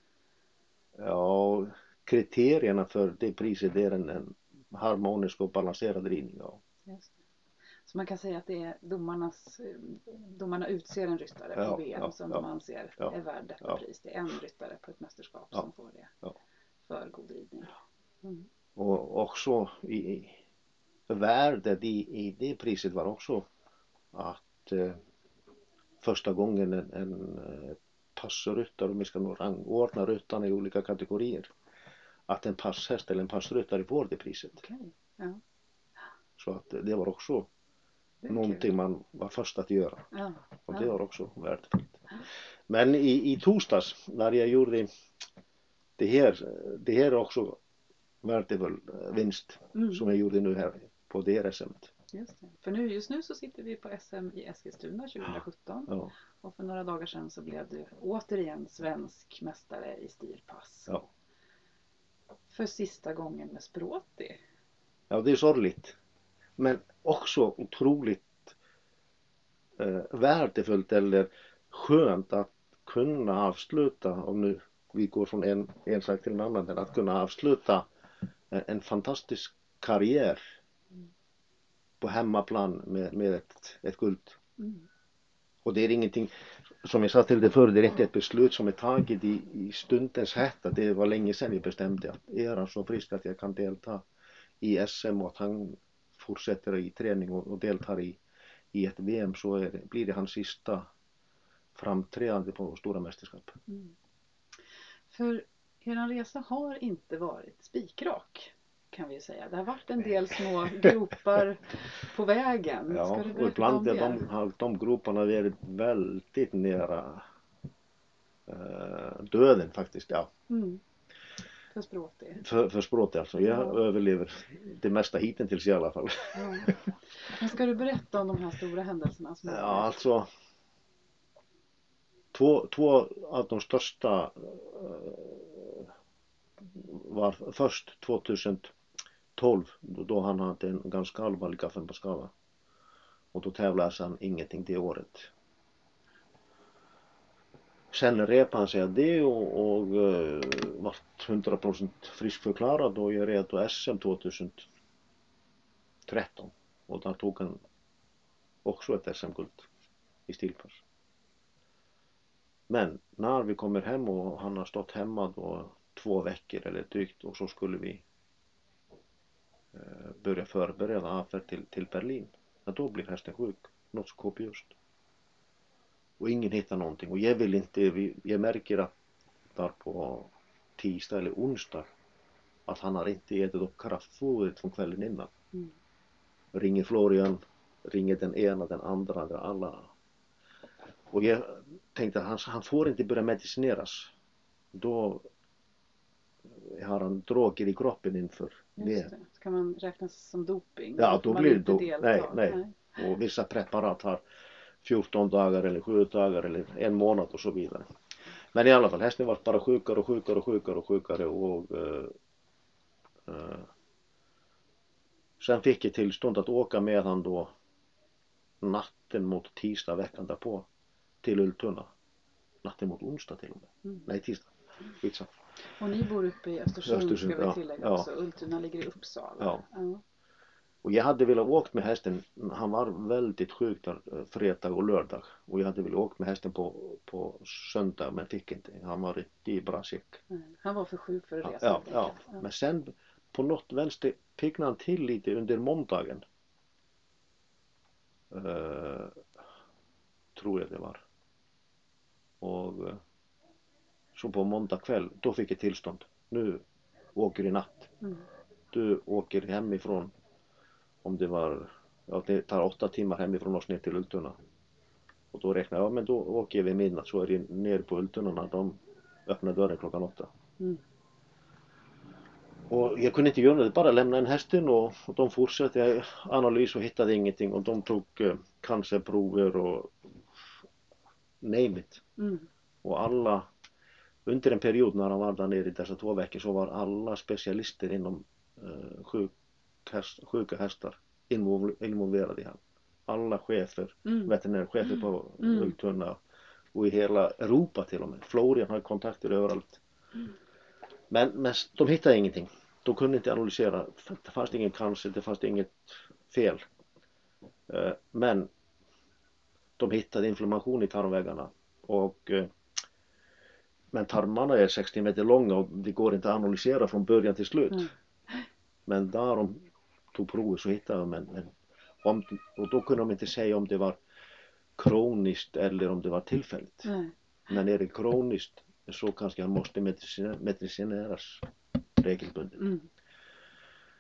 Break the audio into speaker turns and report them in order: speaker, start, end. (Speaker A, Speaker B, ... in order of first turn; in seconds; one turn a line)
Speaker A: 1.0-6.6
Speaker B: 6.9-7.1
Speaker B: 7.8-16.1
Speaker A: 11.6-12.5
Speaker A: 13.0-13.8
Speaker B: 16.9-18.5
Speaker A: 18.8-20.4
Speaker A: 21.1-23.5
Speaker A: 24.1-25.0
Speaker A: 26.0-31.5
Speaker A: 32.3-34.6
Speaker B: 34.6-35.4
Speaker A: 36.4-37.5
Speaker B: 38.2-38.6
Speaker A: 38.3-40.1
Speaker B: 40.1-40.9
Speaker A: 40.7-42.0
Speaker A: 42.7-44.9
Speaker A: 46.0-47.6
Speaker A: 48.2-51.9
Speaker B: 49.8-50.0
Speaker B: 52.1-60.9
Speaker A: 55.9-56.1
Speaker B: 62.5-64.4
Speaker A: 65.1-66.0
Speaker A: 66.6-68.5
Speaker A: 69.8-77.9
Speaker A: 78.5-80.5
Speaker A: 82.0-84.4
Speaker B: 84.6-84.9
Speaker A: 85.7-94.0
Speaker A: 94.6-98.2
Speaker A: 98.7-100.9
Speaker A: 101.8-103.6
Speaker B: 103.7-103.9
Speaker B: 105.1-114.2
Speaker A: 112.9-117.3
Speaker A: 118.5-120.3
Speaker B: 120.5-120.8
Speaker B: 121.7-122.4
Speaker A: 122.4-126.9
Speaker B: 123.5-123.8
Speaker B: 126.3-130.0
Speaker A: 129.5-130.3
Speaker A: 132.3-135.9
Speaker A: 136.8-138.7
Speaker A: 139.4-142.3
Speaker A: 143.3-145.3
Speaker A: 147.9-154.7
Speaker A: 156.1-157.6
Speaker A: 158.6-159.7
Speaker A: 160.3-160.8
Speaker A: 162.7-168.0
Speaker A: 169.7-174.7
Speaker A: 176.2-178.9
Speaker A: 179.6-181.9
Speaker A: 182.7-185.3
Speaker A: 186.5-189.9
Speaker A: 191.1-194.1
Speaker A: 194.7-195.3
Speaker A: 196.6-199.1
Speaker B: 198.8-202.8
Speaker A: 201.0-204.2
Speaker A: 204.8-207.9
Speaker A: 208.5-212.2
Speaker A: 213.3-213.7
Speaker A: 215.4-217.5
Speaker A: 218.6-220.7
Speaker A: 221.2-221.9
Speaker A: 222.6-225.3
Speaker B: 225.8-230.0
Speaker A: 226.8-228.1
Speaker A: 230.8-240.2
Speaker B: 240.3-242.4
Speaker A: 241.4-246.2
Speaker A: 248.3-249.2
Speaker A: 250.3-251.0
Speaker A: 252.4-253.0
Speaker A: 254.2-256.6
Speaker A: 257.2-257.9
Speaker A: 258.7-260.1
Speaker A: 261.0-264.4
Speaker A: 265.3-270.3
Speaker A: 272.7-280.5
Speaker A: 281.4-282.0
Speaker B: 282.2-282.5
Speaker A: 282.8-283.5
Speaker A: 284.3-289.3
Speaker A: 289.9-296.2
Speaker B: 294.1-294.3
Speaker B: 295.4-295.8
Speaker A: 296.7-299.8
Speaker A: 301.1-306.6
Speaker A: 307.7-308.5
Speaker A: 309.8-312.5
Speaker A: 313.9-317.9
Speaker A: 318.9-324.0
Speaker A: 324.8-326.9
Speaker B: 326.8-327.1
Speaker A: 327.5-332.7
Speaker B: 332.6-332.9